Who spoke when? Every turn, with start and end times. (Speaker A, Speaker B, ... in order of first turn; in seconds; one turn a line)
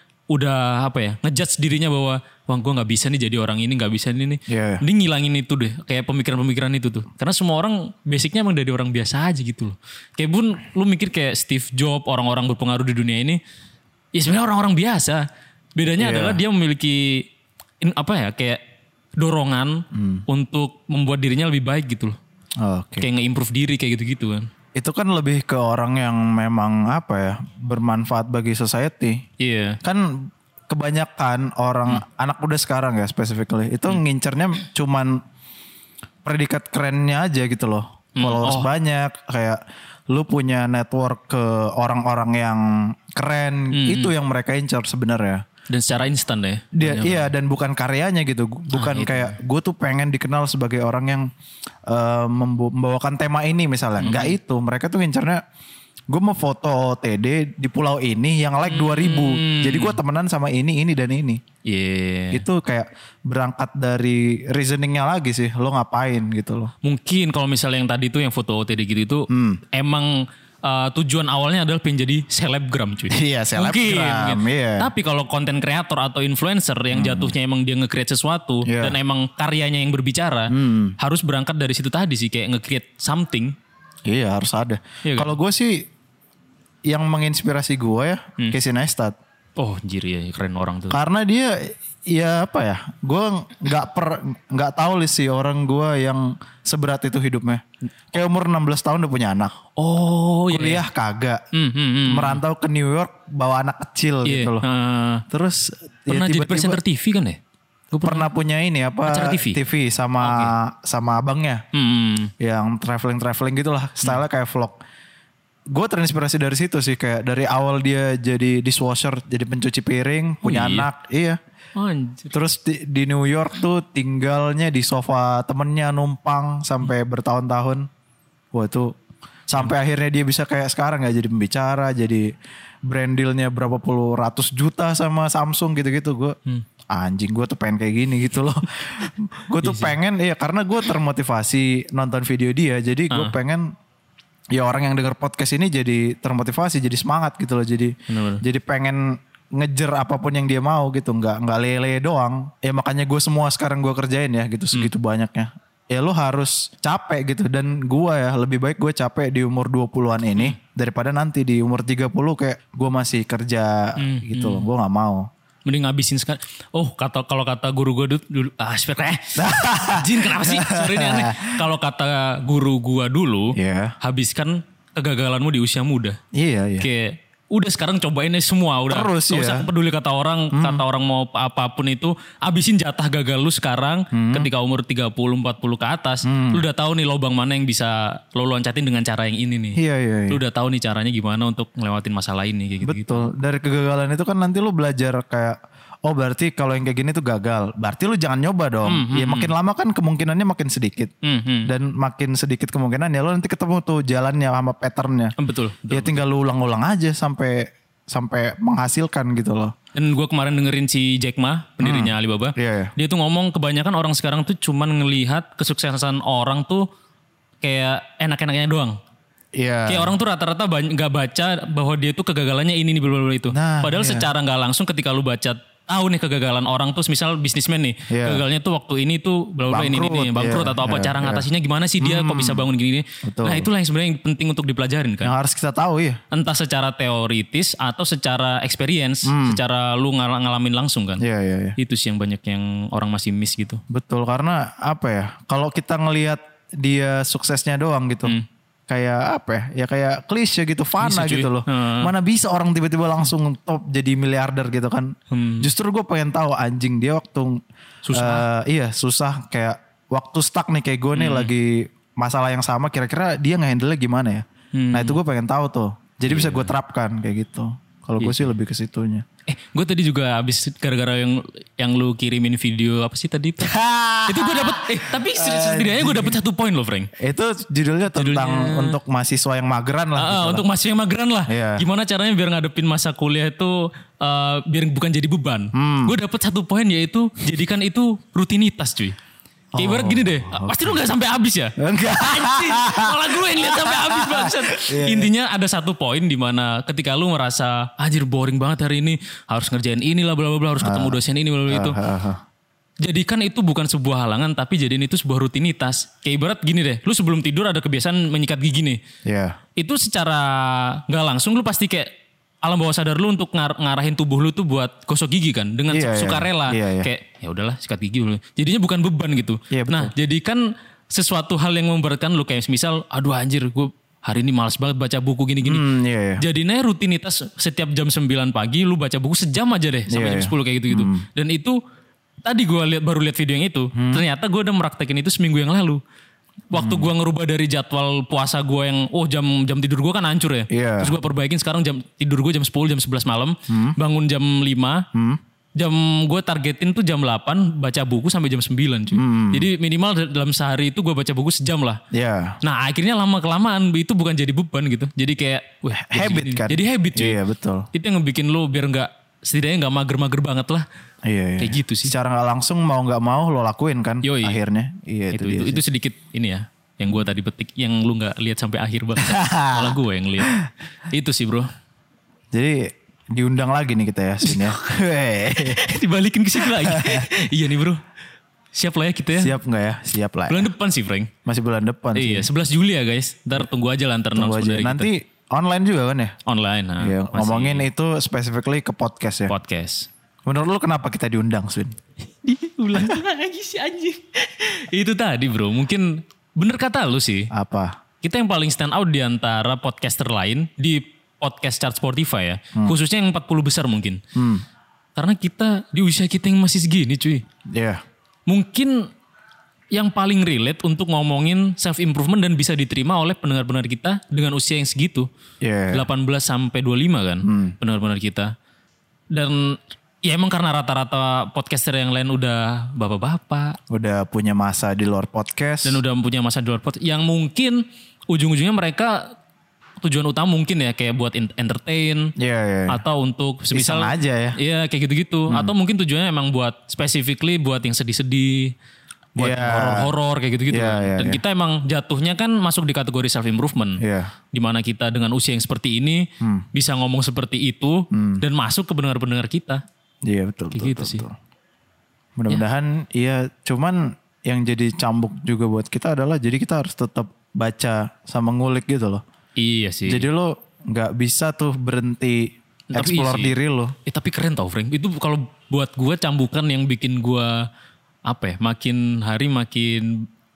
Speaker A: 0.3-13.4
Speaker B: 4.5-4.8
Speaker A: 14.1-17.3
Speaker B: 16.0-16.4
Speaker A: 17.8-18.6
Speaker A: 19.2-22.2
Speaker B: 19.9-20.2
Speaker B: 22.6-23.1
Speaker A: 23.0-24.5
Speaker B: 24.8-29.2
Speaker A: 29.4-29.8
Speaker B: 29.8-35.2
Speaker B: 36.2-45.4
Speaker A: 38.2-38.7
Speaker A: 43.7-44.1
Speaker A: 45.7-47.3
Speaker B: 46.7-51.3
Speaker A: 48.7-49.4
Speaker B: 51.9-55.4
Speaker A: 54.0-54.4
Speaker B: 56.1-61.4
Speaker A: 58.7-60.0
Speaker A: 61.6-62.4
Speaker B: 62.3-66.7
Speaker A: 66.8-83.6
Speaker B: 69.3-69.6
Speaker B: 73.1-74.9
Speaker B: 76.9-77.3
Speaker B: 78.7-79.0
Speaker B: 80.5-81.0
Speaker B: 84.1-85.9
Speaker A: 85.0-85.3
Speaker B: 86.9-89.2
Speaker A: 89.6-91.0
Speaker B: 90.9-99.6
Speaker A: 99.8-100.8
Speaker B: 100.5-101.4
Speaker A: 101.5-102.4
Speaker B: 102.1-104.6
Speaker A: 104.3-105.2
Speaker B: 105.3-106.8
Speaker A: 106.1-107.4
Speaker A: 107.9-108.3
Speaker B: 108.0-111.6
Speaker A: 109.1-109.6
Speaker A: 110.2-110.5
Speaker A: 111.7-112.3
Speaker B: 112.4-114.8
Speaker B: 115.7-121.4
Speaker A: 120.4-120.9
Speaker A: 121.8-122.3
Speaker B: 122.3-127.9
Speaker B: 128.5-128.9
Speaker B: 129.5-132.3
Speaker B: 132.9-136.4
Speaker B: 136.9-143.7
Speaker A: 139.6-139.9
Speaker B: 144.5-165.3
Speaker A: 148.1-148.4
Speaker A: 164.0-164.7
Speaker A: 165.7-176.2
Speaker B: 169.3-171.6
Speaker B: 173.5-173.9
Speaker B: 176.3-176.9
Speaker A: 176.8-193.3
Speaker B: 178.9-179.7
Speaker B: 180.5-180.8
Speaker B: 184.1-184.5
Speaker B: 186.2-186.6
Speaker B: 189.8-190.4
Speaker B: 192.8-201.1
Speaker A: 198.8-199.5
Speaker A: 201.2-201.7
Speaker B: 201.7-205.3
Speaker A: 205.4-206.2
Speaker B: 205.9-209.7
Speaker A: 209.9-216.9
Speaker B: 211.8-212.9
Speaker A: 217.6-219.0
Speaker B: 219.6-220.1
Speaker A: 219.9-235.3
Speaker B: 223.5-224.3
Speaker B: 228.1-228.4
Speaker B: 229.7-231.5
Speaker B: 232.0-232.7
Speaker B: 233.2-233.7
Speaker B: 235.2-236.2
Speaker A: 236.3-241.2
Speaker B: 239.2-239.6
Speaker B: 241.2-241.8
Speaker A: 241.8-243.8
Speaker B: 243.9-248.4
Speaker B: 248.9-257.6
Speaker A: 251.0-252.1
Speaker A: 255.3-255.7
Speaker A: 258.1-258.5
Speaker B: 258.1-269.2
Speaker A: 261.1-261.5
Speaker A: 264.8-265.2
Speaker A: 266.3-266.7
Speaker A: 268.2-268.5
Speaker A: 269.5-273.7
Speaker B: 273.6-276.4
Speaker A: 274.3-277.1
Speaker B: 277.2-280.7
Speaker A: 278.1-279.0
Speaker A: 280.2-289.2
Speaker B: 281.5-281.9
Speaker B: 285.7-286.2
Speaker B: 289.8-291.0
Speaker A: 289.8-302.0
Speaker B: 291.8-295.3
Speaker B: 300.8-302.4
Speaker A: 303.0-309.0
Speaker B: 309.3-309.6
Speaker A: 309.8-312.1
Speaker A: 312.6-325.9
Speaker B: 315.9-317.1
Speaker B: 319.7-320.1
Speaker B: 325.6-326.4
Speaker A: 326.4-331.8
Speaker B: 330.1-331.3
Speaker A: 332.4-336.0
Speaker B: 333.9-334.2
Speaker A: 336.7-345.1
Speaker B: 336.7-337.1
Speaker B: 340.7-341.1
Speaker B: 343.7-344.0
Speaker B: 345.1-345.4
Speaker A: 345.8-352.0
Speaker B: 349.1-349.7
Speaker B: 352.1-352.6
Speaker A: 352.6-357.4
Speaker B: 356.0-357.9
Speaker A: 357.9-360.9
Speaker B: 361.2-365.8
Speaker A: 361.6-362.1
Speaker A: 364.2-364.6
Speaker A: 365.3-370.6
Speaker B: 369.2-370.7
Speaker A: 371.1-371.7
Speaker B: 372.5-375.9
Speaker A: 374.4-374.8
Speaker A: 375.6-378.0
Speaker B: 376.6-377.3
Speaker A: 378.8-379.6
Speaker B: 379.4-380.7
Speaker A: 380.5-381.3
Speaker B: 381.5-382.5
Speaker A: 382.1-385.1
Speaker B: 384.3-386.4
Speaker A: 386.5-387.9
Speaker B: 387.0-389.5
Speaker A: 389.5-390.1
Speaker B: 390.5-392.0
Speaker A: 392.3-397.5
Speaker B: 397.5-398.0
Speaker A: 398.2-404.2
Speaker B: 404.4-404.6
Speaker A: 405.2-407.4
Speaker B: 407.7-408.0
Speaker A: 408.5-409.1
Speaker A: 409.9-415.3
Speaker B: 415.6-416.1
Speaker A: 415.9-418.5
Speaker B: 417.4-417.8
Speaker A: 419.3-423.8
Speaker B: 423.9-426.0
Speaker A: 425.8-429.4
Speaker A: 430.0-432.3
Speaker B: 432.4-433.0
Speaker A: 432.9-438.7
Speaker B: 433.7-434.6
Speaker A: 439.4-449.8
Speaker B: 439.4-440.1
Speaker B: 440.7-441.4
Speaker B: 444.0-444.3
Speaker B: 446.4-446.7
Speaker B: 448.1-448.4
Speaker B: 450.2-451.3
Speaker A: 450.7-451.3
Speaker B: 452.4-459.2
Speaker A: 459.6-460.3
Speaker B: 460.1-463.9
Speaker A: 462.9-463.6
Speaker A: 464.1-467.7
Speaker A: 468.3-470.3